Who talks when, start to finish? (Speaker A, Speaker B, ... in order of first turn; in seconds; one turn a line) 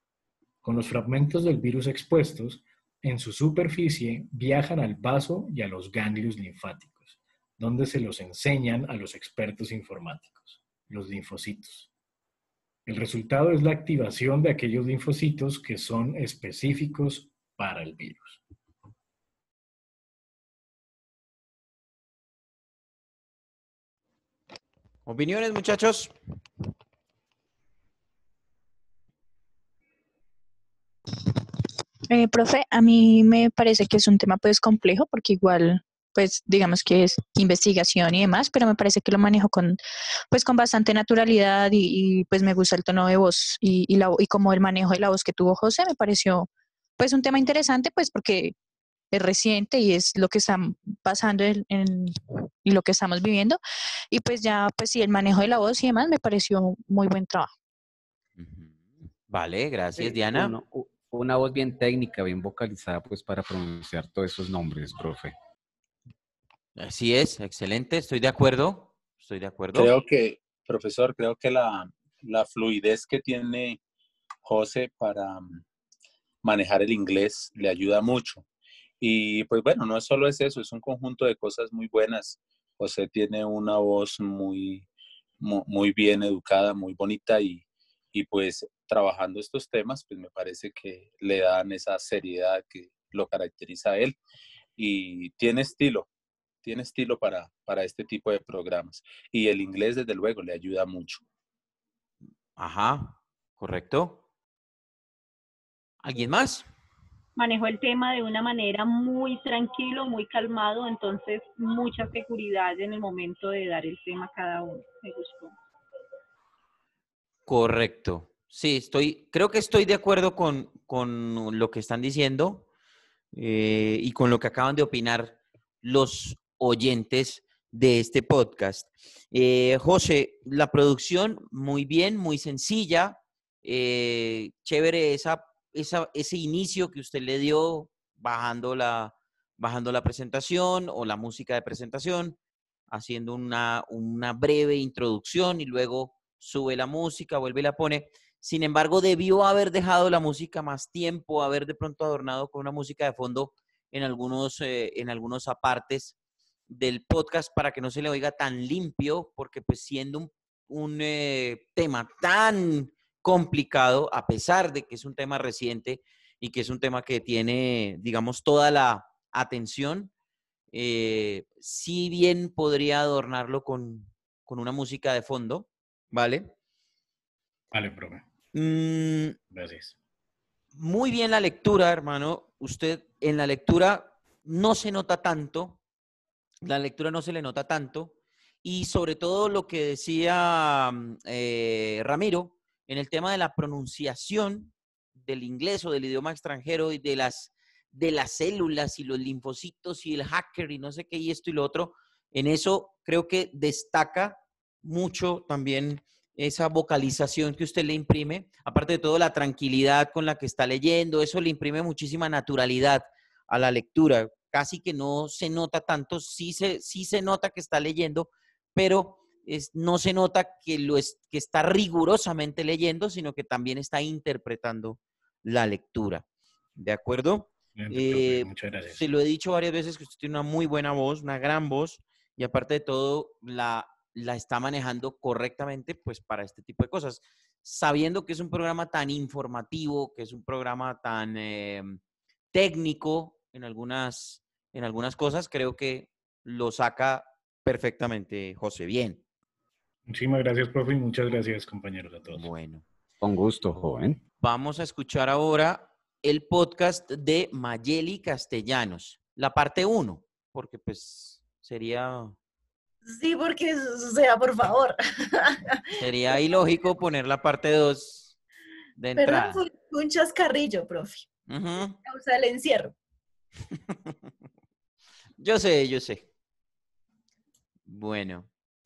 Speaker A: 0.6-11.9
Speaker A: 12.9-18.4
Speaker B: 25.1-26.1
Speaker C: 32.1-39.8
Speaker C: 40.3-46.5
Speaker C: 47.0-48.5
Speaker C: 49.1-53.6
Speaker C: 54.1-57.5
Speaker B: 58.4-60.5
Speaker D: 60.0-65.3
Speaker B: 66.8-69.9
Speaker E: 69.7-73.8
Speaker E: 74.4-75.6
Speaker E: 76.4-78.5
Speaker E: 79.0-84.9
Speaker E: 85.4-94.2
Speaker E: 94.8-96.1
Speaker E: 96.6-101.2
Speaker B: 102.6-104.2
Speaker B: 106.0-106.7
Speaker F: 107.4-115.5
Speaker B: 117.5-122.7
Speaker B: 123.3-142.4
Speaker B: 142.9-156.2
Speaker B: 156.7-170.1
Speaker B: 170.7-176.5
Speaker A: 177.7-178.2
Speaker B: 178.5-179.4
Speaker A: 179.5-180.0
Speaker B: 180.7-185.8
Speaker B: 186.6-226.2
Speaker B: 226.8-242.0
Speaker A: 227.8-229.0
Speaker B: 242.5-249.2
Speaker A: 250.1-252.5
Speaker B: 252.3-252.8
Speaker D: 253.2-254.2
Speaker B: 254.4-262.4
Speaker G: 263.1-265.8
Speaker B: 266.0-268.4
Speaker B: 269.0-269.6
Speaker G: 269.2-271.3
Speaker B: 271.5-272.0
Speaker G: 272.1-272.9
Speaker B: 273.9-274.1
Speaker B: 275.4-276.3
Speaker B: 277.9-278.5